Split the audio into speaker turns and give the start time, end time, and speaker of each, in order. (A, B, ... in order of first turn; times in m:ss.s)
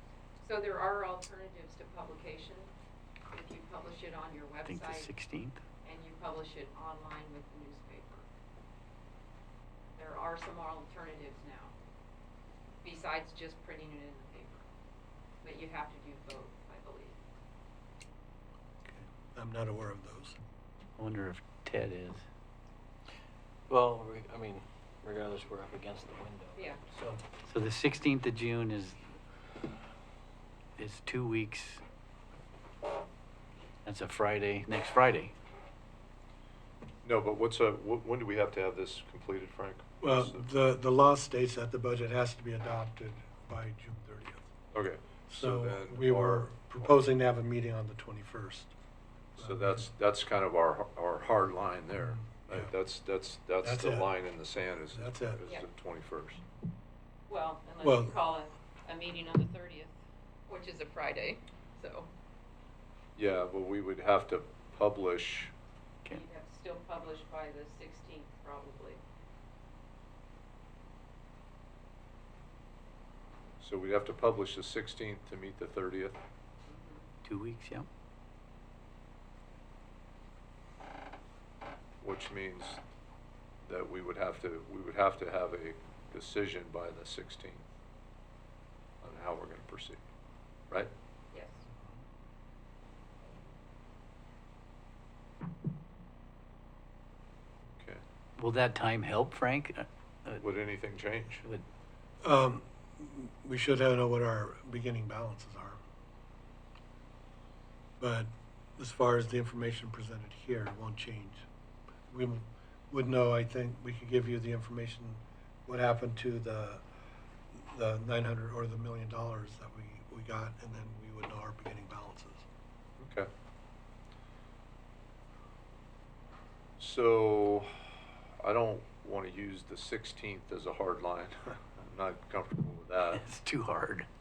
0:00.4-0:02.7 A
0:03.3-0:05.1 A
0:04.6-0:05.6 B
0:05.8-0:08.3 A
0:09.9-0:11.7 A
0:12.8-0:14.6 A
0:15.4-0:17.2 A
0:18.9-0:20.4 C
0:21.0-0:22.2 B
0:23.7-0:27.2 D
0:26.6-0:26.8 A
0:27.3-0:29.0 B
0:30.8-0:31.8 B
0:33.8-0:35.3 B
0:37.0-0:40.5 E
0:40.0-0:44.5 C
0:44.7-0:47.0 E
0:45.3-0:48.7 C
0:49.4-0:49.9 C
0:49.4-0:56.4 E
0:52.0-0:52.7 C
0:53.6-0:54.1 C
0:54.9-0:55.4 C
0:57.3-1:00.0 A
0:57.8-0:58.1 C
1:00.5-1:02.1 A
1:03.2-1:05.5 E
1:06.1-1:09.0 A
1:13.6-1:16.2 E
1:16.7-1:17.1 A
1:17.3-1:17.9 B
1:22.0-1:22.8 E
1:23.6-1:27.7 E
1:29.0-1:30.0 E
1:31.3-1:31.6 A
1:37.8-1:38.0 E
1:38.4-1:40.4 B
1:40.4-1:41.4 E
1:42.2-1:45.8 C
1:48.0-1:51.5 C
1:52.1-1:56.8 C
1:57.5-2:02.4 C
2:03.0-2:03.3 E
2:06.8-2:07.7 E
2:08.4-2:13.2 E
2:13.1-2:14.1 B